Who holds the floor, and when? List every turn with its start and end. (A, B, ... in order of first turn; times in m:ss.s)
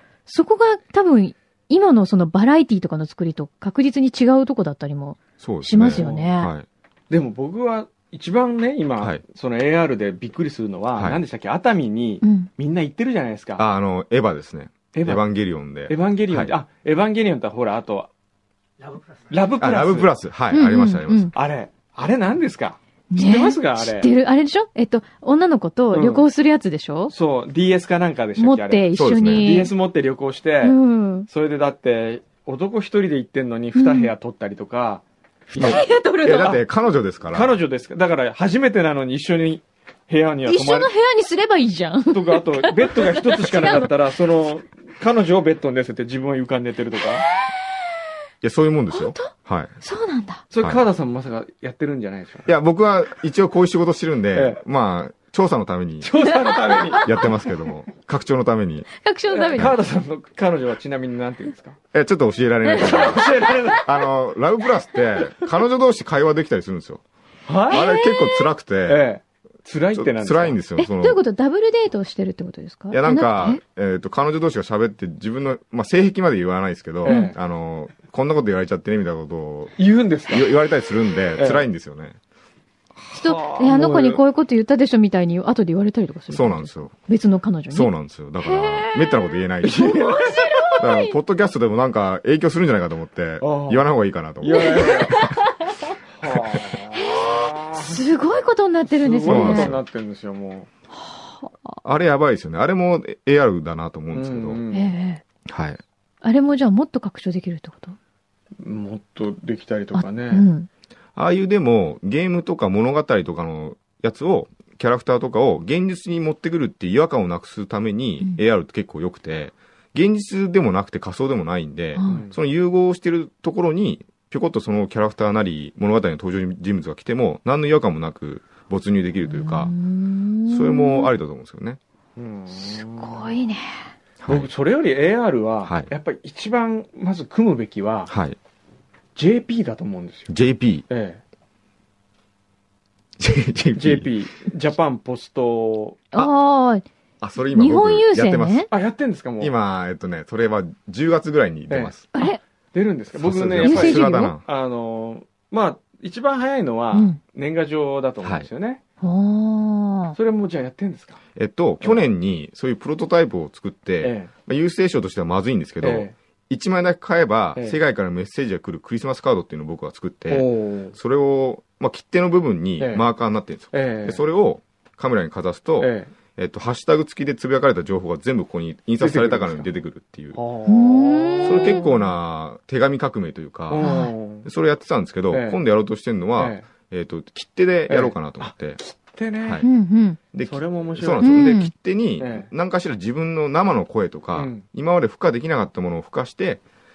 0:00.3-0:06.5 A
0:05.4-0:06.7 B
0:05.8-0:06.3 C
0:07.1-0:13.6 C
0:12.2-0:12.5 A
0:13.6-0:16.5 B
0:14.9-0:15.2 C
0:15.9-0:18.1 C
0:19.3-0:20.1 C
0:19.6-0:21.3 B
0:20.5-0:21.3 A
0:21.3-0:24.1 C
0:23.1-0:27.1 A
0:25.9-0:26.3 C
0:27.1-0:35.0 C
0:28.4-0:29.7 A
0:28.9-0:29.6 B
0:30.6-0:31.3 A
0:33.8-0:34.1 A
0:35.6-0:36.6 A
0:35.6-0:37.6 B
0:37.3-0:40.9 C
0:40.5-0:43.9 A
0:42.1-0:47.3 C
0:48.4-0:49.8 B
0:48.9-0:50.4 A
0:50.5-0:52.5 C
0:52.5-0:56.1 B
0:54.3-0:54.6 C
0:56.0-0:57.1 C
0:56.6-0:57.3 A
0:57.0-0:58.9 B
0:59.0-0:59.8 A
0:59.3-1:01.8 C
1:01.9-1:07.0 B
1:02.7-1:03.9 C
1:02.8-1:03.6 A
1:07.5-1:08.0 C
1:07.7-1:09.0 B
1:07.7-1:08.5 A
1:08.9-1:10.6 C
1:09.9-1:11.2 B
1:10.8-1:13.6 A
1:12.9-1:19.7 B
1:17.0-1:17.4 C
1:17.1-1:17.3 A
1:19.8-1:20.5 C
1:20.3-1:22.2 B
1:21.4-1:21.7 C
1:23.1-1:27.9 A
1:23.3-1:24.2 C
1:26.3-1:26.9 B
1:27.7-1:29.9 B
1:28.4-1:31.2 A
1:29.6-1:30.8 C
1:30.8-1:35.4 B
1:33.4-1:33.9 C
1:34.4-1:35.3 C
1:34.8-1:35.9 A
1:36.1-1:38.1 C
1:36.9-1:39.8 A
1:39.0-1:40.7 C
1:39.3-1:39.8 B
1:41.0-1:41.5 A
1:41.8-1:44.6 B
1:44.1-1:44.9 C
1:44.7-1:45.2 A
1:45.5-1:45.8 B
1:46.2-1:48.0 A
1:48.6-1:50.5 C
1:50.0-1:50.7 A
1:51.2-2:09.7 B
2:02.0-2:02.3 A
2:02.1-2:02.4 C
2:09.3-2:11.1 A
2:10.5-2:11.8 B
2:12.2-2:13.4 C
2:12.6-2:13.9 A
2:14.2-2:14.5 B
2:14.3-2:18.1 C
2:15.6-2:15.9 B
2:18.1-2:18.4 B
2:19.2-2:20.3 C
2:20.3-2:20.8 B
2:20.9-2:21.2 C
2:23.2-2:24.1 B
2:23.8-2:26.0 C
2:26.1-2:26.9 A
2:27.2-2:28.7 B
2:27.5-2:28.7 A
2:28.7-2:29.5 C
2:29.4-2:32.1 B
2:31.7-2:38.8 C
2:32.2-2:32.4 A
2:33.2-2:34.4 B
2:33.6-2:34.4 A
2:36.9-2:37.2 A
2:38.2-2:38.5 B
2:39.0-2:40.2 A
2:40.2-2:41.2 C
2:41.4-3:00.4 B
2:44.0-2:44.3 C
2:45.8-2:46.1 C
2:50.3-2:51.0 C
2:52.8-2:53.1 C
2:53.7-2:54.2 C
2:55.8-2:56.1 C
2:59.0-2:59.7 C
3:00.4-3:01.9 C
3:00.7-3:01.9 A
3:01.4-3:03.9 B
3:03.7-3:04.5 C
3:03.8-3:04.1 A
3:04.4-3:08.8 B
3:05.3-3:05.6 C
3:06.4-3:06.7 C
3:07.9-3:09.7 C
3:09.4-3:09.7 B
3:09.6-3:10.2 A
3:10.3-3:16.6 B
3:10.4-3:11.3 C
3:11.2-3:11.7 A
3:12.2-3:12.5 C
3:14.4-3:14.6 C